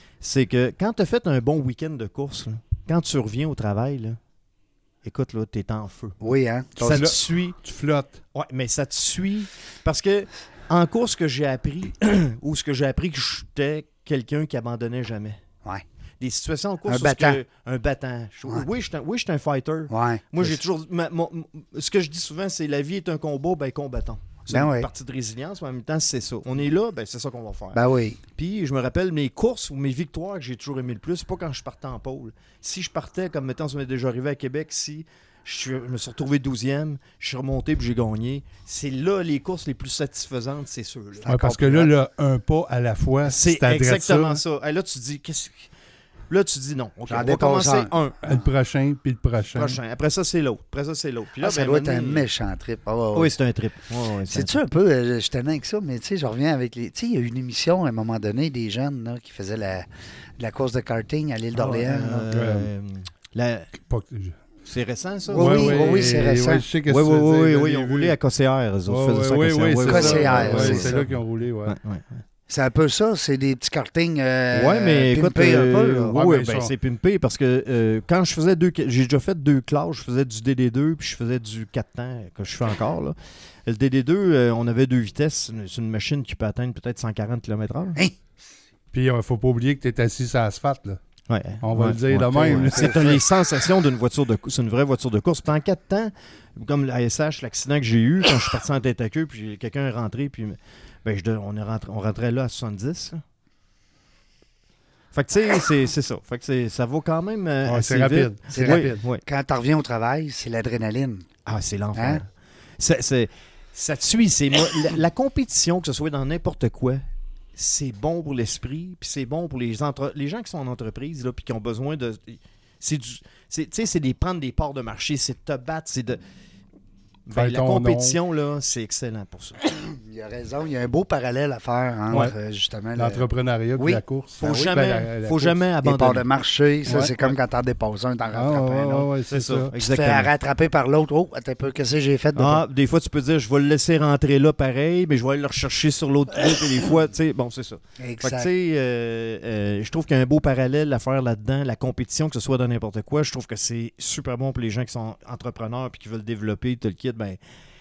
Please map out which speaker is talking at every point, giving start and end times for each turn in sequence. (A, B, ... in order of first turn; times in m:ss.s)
0:00.2-0:04.2 A
0:05.0-0:06.2 A
0:06.2-0:07.1 B
0:06.8-0:07.6 A
0:06.8-0:08.2 C
0:08.4-0:15.4 A
0:16.2-0:27.8 A
0:16.9-0:17.4 B
0:19.9-0:20.6 B
0:24.5-0:24.9 B
0:27.7-0:28.2 B
0:28.4-0:41.8 A
0:41.2-0:41.9 B
0:41.3-0:44.4 C
0:43.3-0:45.7 A
0:46.3-0:48.3 A
0:47.1-0:48.4 B
0:48.2-0:49.8 C
0:49.5-0:52.3 A
0:51.4-0:53.3 B
0:53.1-0:54.6 A
0:54.3-0:59.9 B
1:00.4-1:02.3 B
1:01.6-1:03.7 A
1:02.3-1:02.7 C
1:03.8-1:04.4 C
1:04.6-1:06.1 A
1:05.3-1:06.6 B
1:05.3-1:08.2 C
1:06.9-1:11.1 A
1:08.9-1:11.8 C
1:09.8-1:11.0 B
1:11.6-1:12.2 A
1:12.5-1:16.2 B
1:14.5-1:23.1 A
1:16.1-1:16.7 C
1:23.6-1:28.0 A
1:28.9-1:31.0 C
1:31.3-1:43.2 A
1:31.6-1:33.2 C
1:32.6-1:33.1 B
1:45.1-1:49.2 A
1:47.6-1:49.0 C
1:48.5-1:51.3 B
1:51.4-1:52.3 A
1:51.9-1:52.2 B
1:52.8-1:57.0 A
1:57.6-2:06.2 A
2:07.3-2:09.6 A
2:07.3-2:08.2 C
2:09.9-2:13.2 B
2:13.0-2:15.6 C
2:13.8-2:14.7 B
2:14.4-2:16.2 A
2:15.8-2:19.1 B
2:16.9-2:17.1 C
2:18.3-2:19.7 C
2:19.3-2:20.3 A
2:19.7-2:22.6 B
2:22.4-2:37.4 A
2:28.0-2:28.5 B